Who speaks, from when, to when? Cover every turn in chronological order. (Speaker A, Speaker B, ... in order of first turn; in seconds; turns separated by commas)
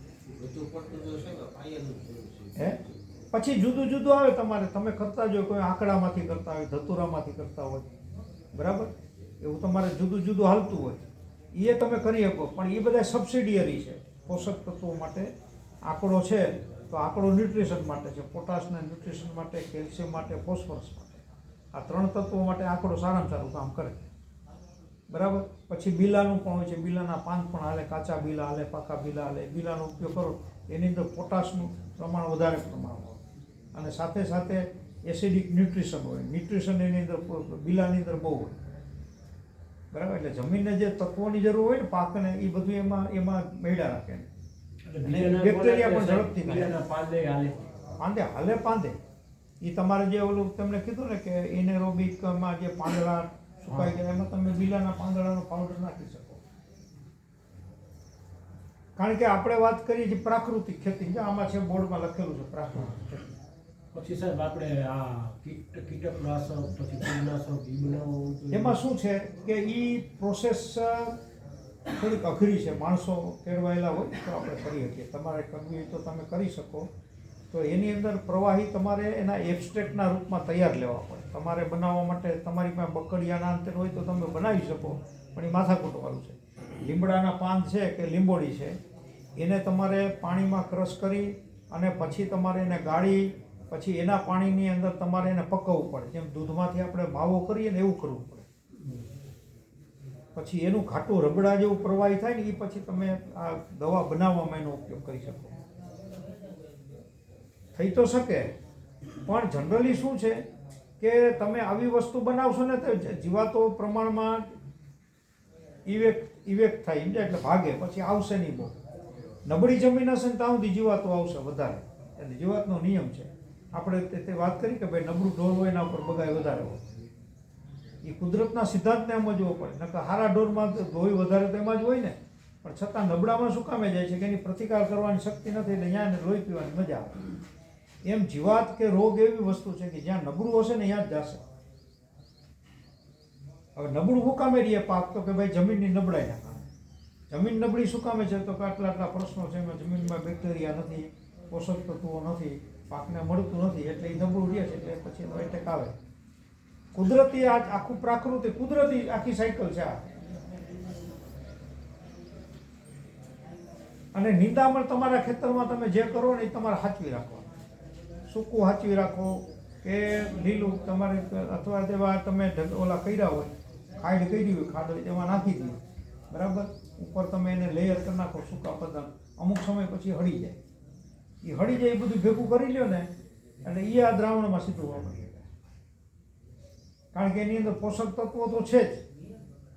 Speaker A: 0.3-3.0, Speaker B: 3.3-7.9, Speaker B: 8.5-15.3, Speaker B: 15.9-21.2, Speaker B: 21.7-24.1, Speaker B: 25.1-33.2, Speaker B: 33.7-38.6, Speaker B: 39.9-44.3, Speaker C: 44.9-47.6, Speaker B: 45.0-46.8, Speaker B: 48.0-49.0, Speaker B: 49.6-56.4, Speaker C: 53.7-54.0, Speaker B: 59.0-63.4, Speaker C: 63.9-68.8, Speaker B: 68.5-71.2, Speaker B: 71.9-76.9, Speaker B: 77.5-88.8, Speaker B: 89.4-98.5, Speaker B: 100.3-105.6, Speaker B: 107.8-108.5, Speaker B: 109.2-110.4, Speaker B: 111.0-114.5, Speaker B: 115.9-118.7, Speaker B: 119.5-126.8, Speaker B: 128.0-137.3, Speaker B: 138.0-141.4, Speaker B: 143.8-146.6, Speaker B: 147.3-155.9, Speaker B: 156.9-160.1, Speaker B: 164.1-167.5, Speaker B: 168.3-175.8, Speaker B: 176.3-180.6, Speaker B: 181.4-183.1, Speaker B: 183.6-185.5, Speaker B: 187.1-189.0